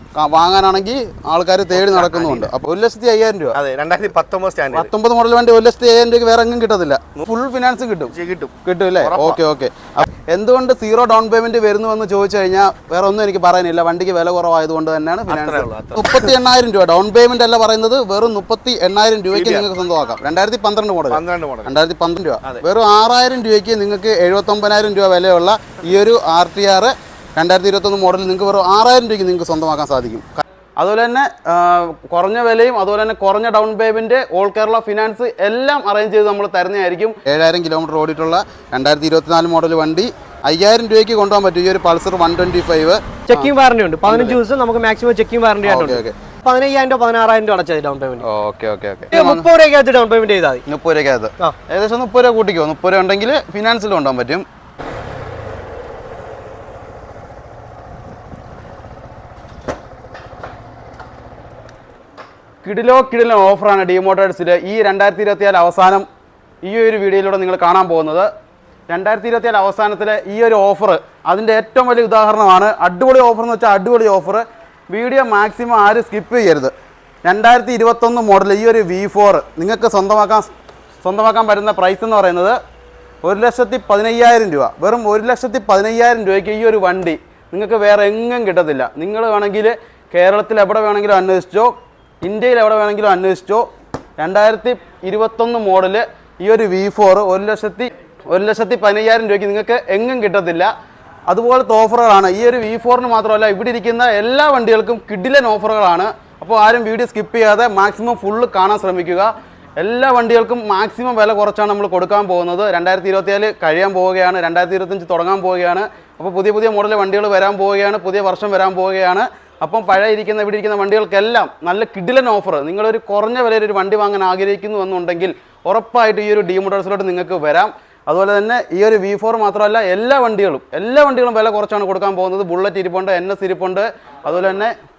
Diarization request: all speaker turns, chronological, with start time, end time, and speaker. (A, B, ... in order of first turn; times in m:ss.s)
0:00.2-0:03.6 A
0:01.7-0:02.5 B
0:03.6-0:04.9 B
0:04.7-0:43.5 A
0:08.1-0:09.4 B
0:15.3-0:16.4 B
0:19.3-0:19.7 B
0:21.1-0:21.8 B
0:43.3-0:48.2 C
0:44.1-0:44.4 A
0:45.6-0:46.2 A
0:48.2-0:49.5 A
0:49.1-0:50.6 C
0:50.7-0:54.4 A
1:02.6-1:06.1 A
1:06.6-1:08.3 A
1:08.9-1:16.7 A
1:17.2-1:20.5 A
1:21.0-1:22.6 A
1:23.2-1:40.7 A
1:41.3-2:14.8 A